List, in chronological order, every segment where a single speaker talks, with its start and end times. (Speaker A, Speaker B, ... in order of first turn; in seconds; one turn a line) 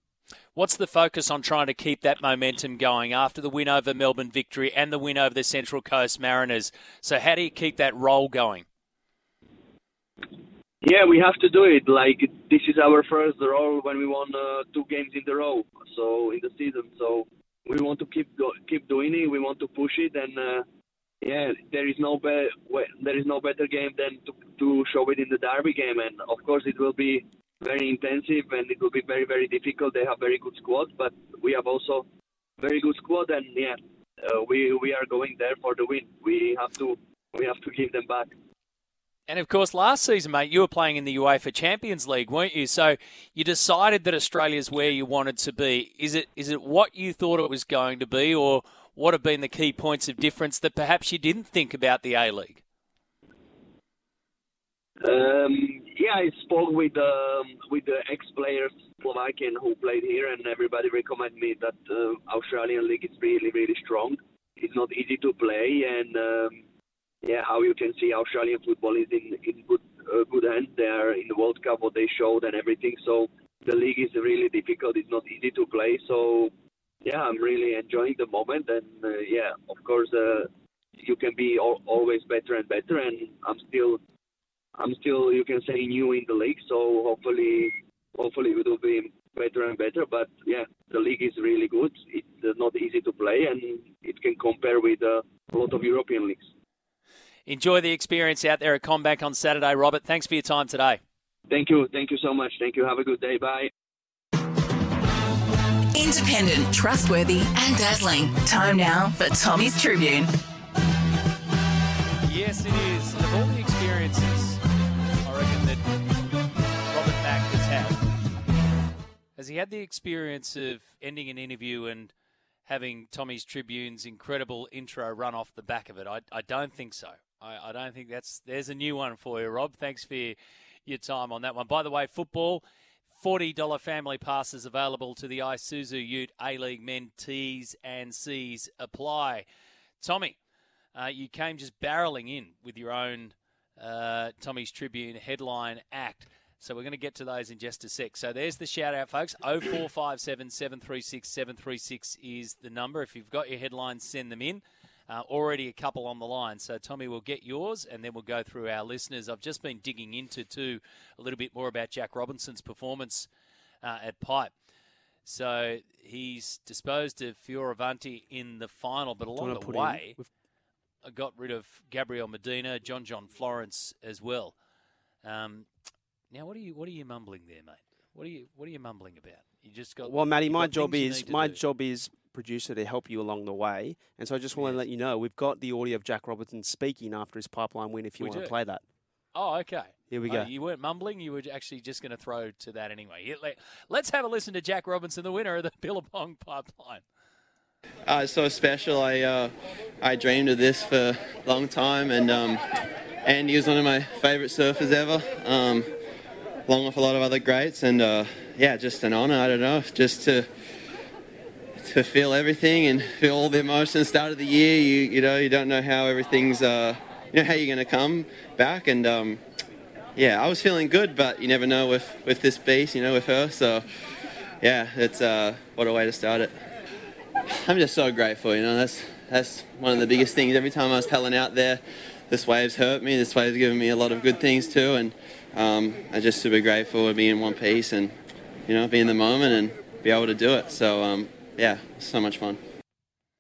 Speaker A: 0.6-8.7
Speaker B: 10.8-20.6
Speaker B: 21.2-32.0
Speaker B: 32.6-38.3
Speaker A: 39.3-52.6
Speaker B: 55.0-66.6
Speaker B: 67.2-76.5
Speaker B: 77.0-84.0
Speaker B: 84.8-96.5
Speaker A: 97.5-101.0
Speaker B: 101.5-103.7
Speaker C: 105.9-110.3
Speaker A: 112.2-114.6
Speaker A: 115.2-115.8
Speaker A: 116.9-118.0
Speaker A: 119.3-122.1
Speaker A: 122.7-132.6
Speaker A: 133.2-139.4
Speaker A: 140.0-140.4
Speaker A: 140.9-163.3
Speaker A: 163.8-164.5
Speaker A: 165.2-170.2
Speaker D: 169.3-170.3
Speaker A: 171.0-174.6
Speaker A: 175.2-175.7
Speaker A: 176.3-181.6
Speaker D: 180.0-188.8
Speaker A: 184.6-184.8
Speaker A: 188.2-188.5
Speaker A: 189.3-197.0
Speaker D: 190.1-190.5
Speaker E: 198.1-202.6
Speaker E: 203.2-205.9
Speaker E: 206.7-210.5
Speaker E: 211.8-219.4
Speaker E: 220.1-223.9
Speaker E: 224.6-226.6
Speaker E: 227.5-242.6